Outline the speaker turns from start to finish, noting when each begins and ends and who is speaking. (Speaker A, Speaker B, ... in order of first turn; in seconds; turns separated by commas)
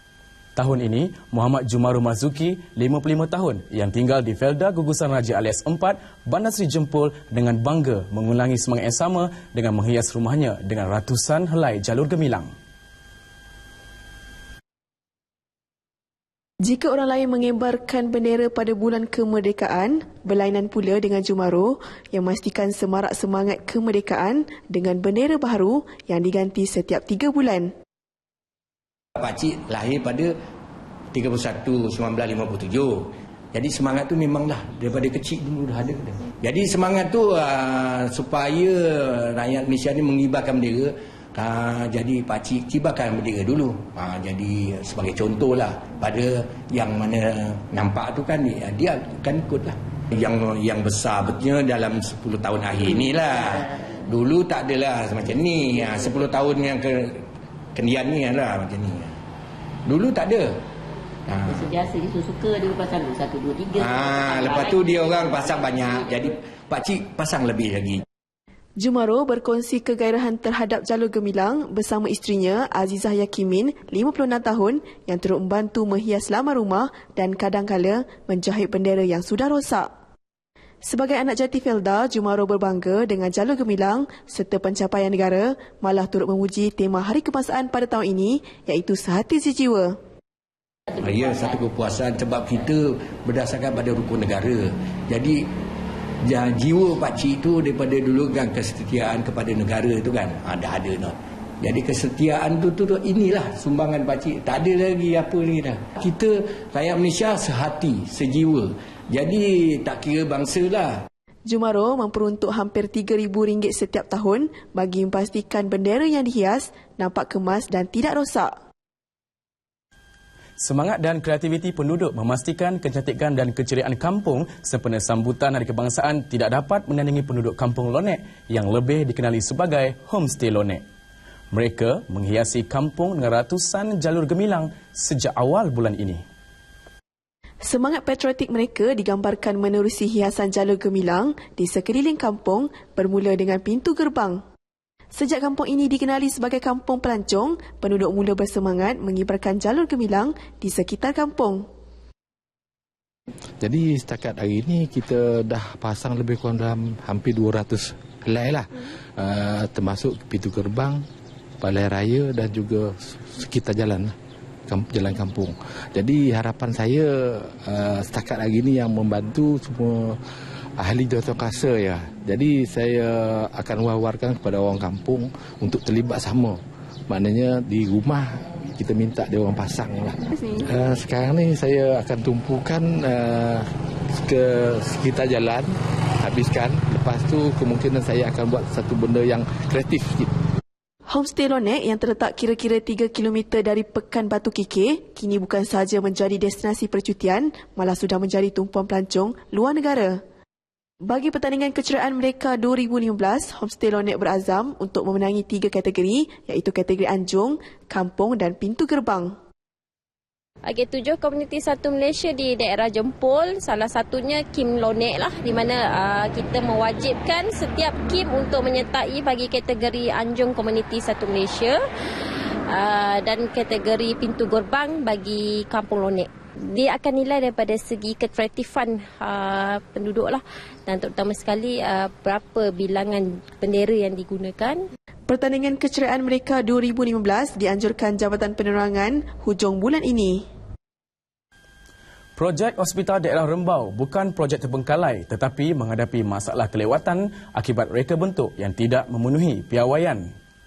Speaker A: 0.6-12.5, Speaker B: 16.6-27.7, Speaker C: 29.2-30.3, Speaker C: 31.1-57.2, Speaker D: 52.7-53.9, Speaker C: 57.8-59.1, Speaker C: 59.9-60.6, Speaker C: 61.3-61.7, Speaker D: 61.5-66.3, Speaker C: 63.7-68.0, Speaker B: 68.8-79.9, Speaker B: 80.8-90.0, Speaker D: 90.9-91.6, Speaker C: 91.0-95.4, Speaker C: 96.2-111.1, Speaker B: 111.5-118.5, Speaker A: 120.6-130.8, Speaker A: 131.5-136.2, Speaker B: 137.6-144.4, Speaker B: 145.1-151.7, Speaker E: 153.6-161.1, Speaker E: 161.6-164.2, Speaker E: 164.7-170.2, Speaker E: 170.8-183.7, Speaker E: 184.2-190.3, Speaker B: 191.1-200.2, Speaker B: 201.1-209.3, Speaker F: 210.7-221.8, Speaker F: 222.7-234.8, Speaker B: 235.3-240.4, Speaker A: 242.4-250.3